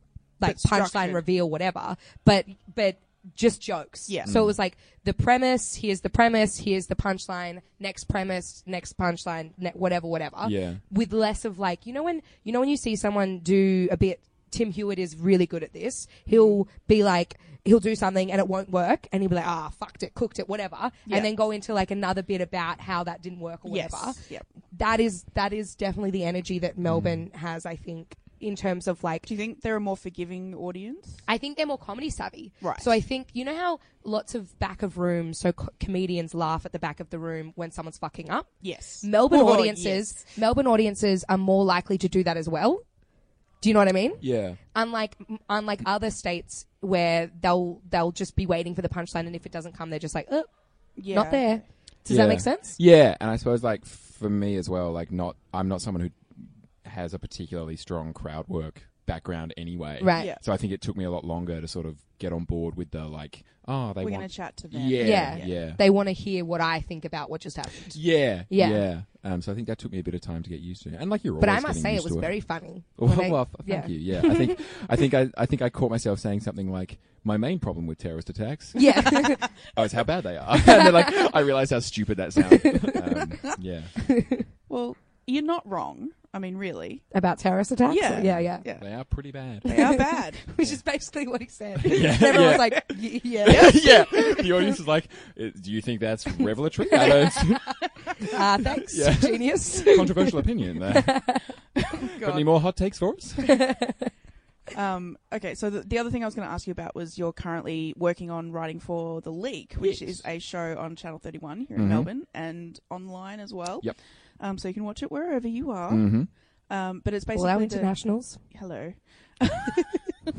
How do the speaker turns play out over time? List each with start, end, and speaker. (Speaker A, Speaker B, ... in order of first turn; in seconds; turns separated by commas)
Speaker A: 0.4-24.2, Speaker B: 0.4-1.2, Speaker C: 4.2-4.5, Speaker C: 10.4-10.8, Speaker B: 16.3-16.6, Speaker B: 23.6-24.4, Speaker A: 24.7-29.3, Speaker C: 26.8-27.2, Speaker B: 29.2-31.2, Speaker A: 31.3-38.5, Speaker B: 32.6-32.9, Speaker B: 38.6-40.3, Speaker A: 39.0-42.8, Speaker A: 43.6-50.5, Speaker C: 44.2-44.6, Speaker B: 51.0-51.6, Speaker A: 51.1-52.8, Speaker C: 52.1-65.8, Speaker A: 60.0-60.3, Speaker B: 60.1-60.4, Speaker B: 64.0-65.6, Speaker A: 65.0-68.8, Speaker C: 67.9-84.0, Speaker A: 71.4-74.6, Speaker A: 78.7-79.4, Speaker A: 84.1-84.4, Speaker B: 84.7-87.1, Speaker A: 87.1-88.6, Speaker B: 87.8-90.4, Speaker C: 88.2-89.7, Speaker A: 89.7-94.5, Speaker C: 91.8-97.9, Speaker B: 93.5-93.8, Speaker A: 97.0-97.4, Speaker A: 98.3-100.4, Speaker C: 98.9-101.2, Speaker A: 100.9-101.5, Speaker B: 102.0-102.5, Speaker C: 102.2-103.6, Speaker A: 103.6-104.1, Speaker B: 104.7-120.0, Speaker C: 109.8-110.2, Speaker C: 111.8-112.1, Speaker C: 115.9-116.3, Speaker A: 117.3-118.4